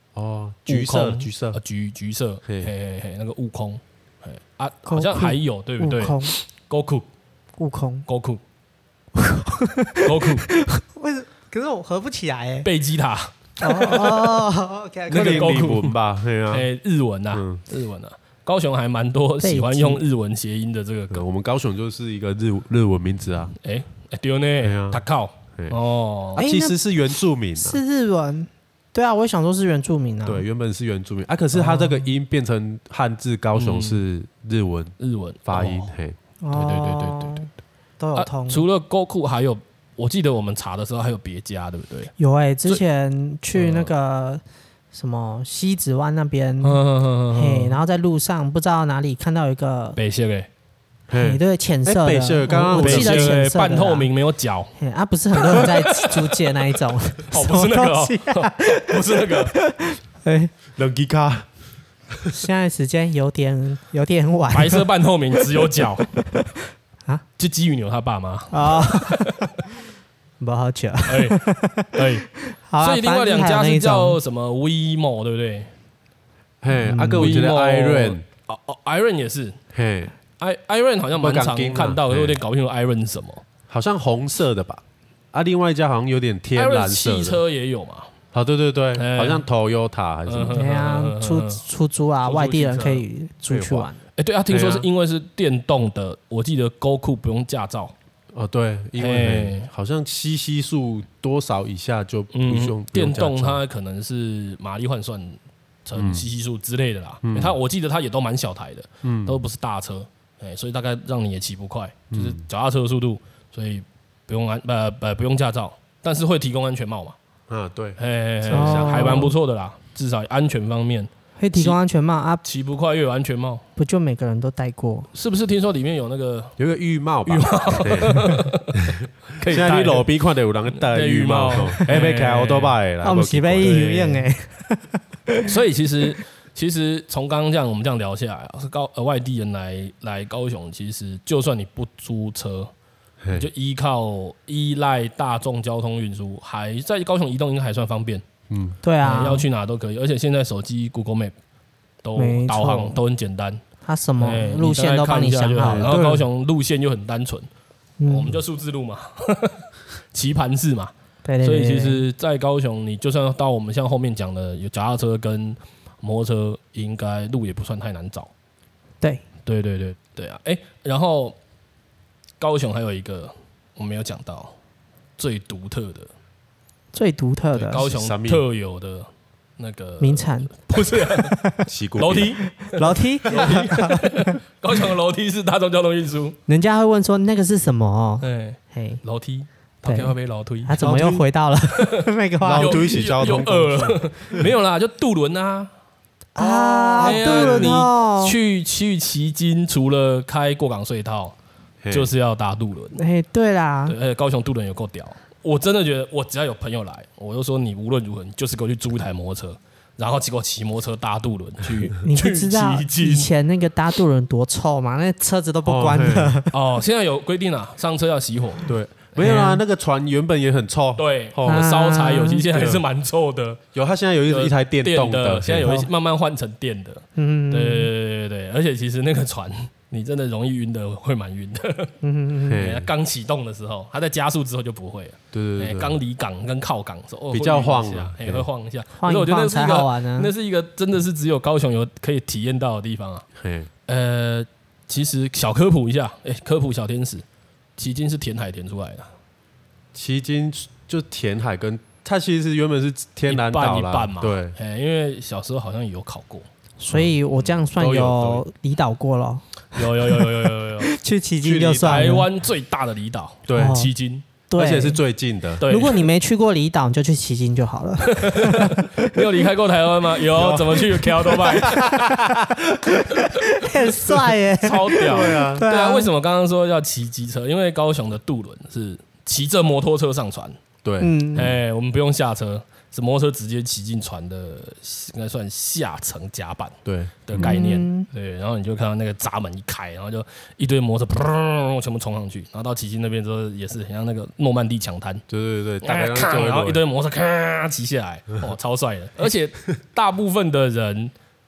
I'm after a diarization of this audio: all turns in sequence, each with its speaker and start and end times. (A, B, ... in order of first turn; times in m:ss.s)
0:00.2-0:01.6 A
0:00.7-0:07.1 B
0:02.5-0:02.7 A
0:04.9-0:06.3 C
0:07.6-0:08.1 C
0:08.1-0:08.4 B
0:09.2-0:12.7 C
0:10.0-0:10.5 B
0:12.6-0:14.4 B
0:13.6-0:15.6 C
0:15.1-0:16.7 A
0:15.1-0:16.0 B
0:16.5-0:21.2 B
0:17.3-0:17.6 A
0:19.4-0:20.0 C
0:21.1-0:23.5 A
0:23.6-0:26.4 B
0:24.6-0:25.0 A
0:26.4-0:27.8 A
0:26.4-0:26.8 C
0:27.6-0:30.4 C
0:30.2-0:34.9 A
0:31.5-0:32.0 C
0:33.6-0:34.0 B
0:35.0-0:35.9 B
0:35.5-0:36.2 A
0:36.4-0:37.5 C
0:36.5-0:37.5 B
0:38.0-0:38.6 C
0:38.2-0:42.1 B
0:42.2-0:46.8 C
0:43.5-0:43.9 B
0:46.6-0:47.8 B
0:47.3-0:50.0 C
0:50.0-0:50.5 B
0:51.1-0:53.4 A
0:51.1-0:54.1 C
0:52.8-0:54.7 B
0:54.8-1:00.5 C
0:55.4-0:56.6 B
0:57.3-0:59.5 B
1:00.8-1:01.5 A
1:02.3-1:04.9 C
1:04.5-1:06.1 B
1:06.2-1:06.5 C
1:07.4-1:09.5 B
1:08.5-1:09.5 C
1:10.4-1:14.2 C
1:11.1-1:11.4 B
1:11.9-1:12.3 B
1:12.8-1:15.7 B
1:16.6-1:18.2 A
1:16.7-1:17.3 C
1:17.1-1:19.6 B
1:19.7-1:20.2 A
1:20.4-1:23.4 B
1:21.2-1:22.4 A
1:23.7-1:24.8 A
1:25.3-1:27.4 A
1:26.6-1:28.1 B
1:28.3-1:30.6 A
1:29.0-1:29.4 B
1:30.3-1:31.6 B
1:30.5-1:34.0 C
1:32.2-1:33.0 B
1:33.5-1:33.9 A
1:34.2-1:37.9 B
1:34.5-1:34.9 A
1:38.3-1:43.6 A
1:39.0-1:39.7 B
1:42.3-1:57.2 B
1:46.0-1:46.3 A
1:47.2-1:47.6 A
1:49.0-1:49.4 A
1:52.1-1:52.4 A
1:57.5-1:59.2 A
1:58.0-2:01.8 B
1:58.5-1:59.4 C
2:01.4-2:02.4 C
2:02.4-2:03.6 B
2:03.8-2:05.1 C
2:05.1-2:06.6 B
2:06.6-2:08.3 A
2:07.3-2:10.1 B
2:09.0-2:13.9 A
2:10.7-2:12.8 B
2:13.0-2:15.6 C
2:13.6-2:14.3 B
2:15.4-2:22.7 B
2:23.2-2:23.5 A
2:23.3-2:28.2 B
2:28.5-2:28.8 A
2:28.8-2:29.4 C
2:29.0-2:31.3 B
2:32.0-2:33.6 B
2:32.2-2:33.0 C
2:33.8-2:35.9 C
2:34.2-2:37.5 B
2:35.6-2:36.2 A
2:38.0-2:38.3 C
2:38.1-2:48.3 B
2:41.2-2:42.1 C
2:49.4-2:51.4 B
2:52.4-2:54.6 B
2:55.2-2:56.1 B
2:56.9-2:57.9 C
2:57.5-3:01.4 B
2:57.8-2:58.4 A
3:00.0-3:01.7 C
3:01.7-3:02.4 A
3:02.0-3:06.4 B
3:02.6-3:04.4 C
3:06.5-3:09.0 C
3:08.2-3:11.2 B
3:09.8-3:10.1 C
3:10.7-3:13.0 C
3:10.8-3:11.1 A
3:11.7-3:15.7 B
3:12.4-3:14.5 A
3:16.4-3:18.4 C
3:16.4-3:21.4 B
3:16.9-3:17.7 A
3:21.8-3:22.1 A
3:21.9-3:23.0 B
3:23.0-3:24.0 C
3:23.9-3:33.3 B
3:32.1-3:36.5 C
3:35.6-3:36.4 A
3:36.5-3:38.7 B
3:38.6-3:41.7 A
3:39.2-3:39.6 C
3:41.0-3:43.6 B
3:41.5-3:42.5 C
3:42.5-3:42.8 A
3:43.7-3:45.8 A
3:44.3-3:52.0 B
3:47.2-3:47.9 C
3:52.0-3:52.6 C
3:52.5-3:52.9 A
3:52.6-4:03.3 B
3:55.3-3:56.0 A
3:57.3-3:58.5 A
3:59.0-4:00.3 C
4:03.4-4:03.7 A
4:03.9-4:07.2 B
4:07.8-4:09.1 B
4:09.9-4:14.6 A
4:13.3-4:16.5 B
4:16.8-4:22.3 C
4:16.9-4:18.4 A
4:19.8-4:20.9 B
4:21.4-4:22.2 A
4:21.9-4:24.2 B
4:23.5-4:23.8 A
4:23.5-4:23.9 C
4:24.5-4:25.0 C
4:24.6-4:25.6 A
4:25.6-4:26.1 B
4:25.7-4:29.2 C
4:28.1-4:32.3 B
4:30.4-4:32.6 A
4:31.6-4:32.4 C
4:32.9-4:36.1 C
4:33.1-4:33.9 B
4:34.6-4:40.6 B
4:35.0-4:35.7 A
4:40.8-4:41.1 A
4:41.0-4:41.6 C
4:41.3-4:55.2 B
4:46.8-4:47.6 A
4:47.4-4:48.1 C
4:55.3-4:56.8 A
4:55.8-5:01.1 B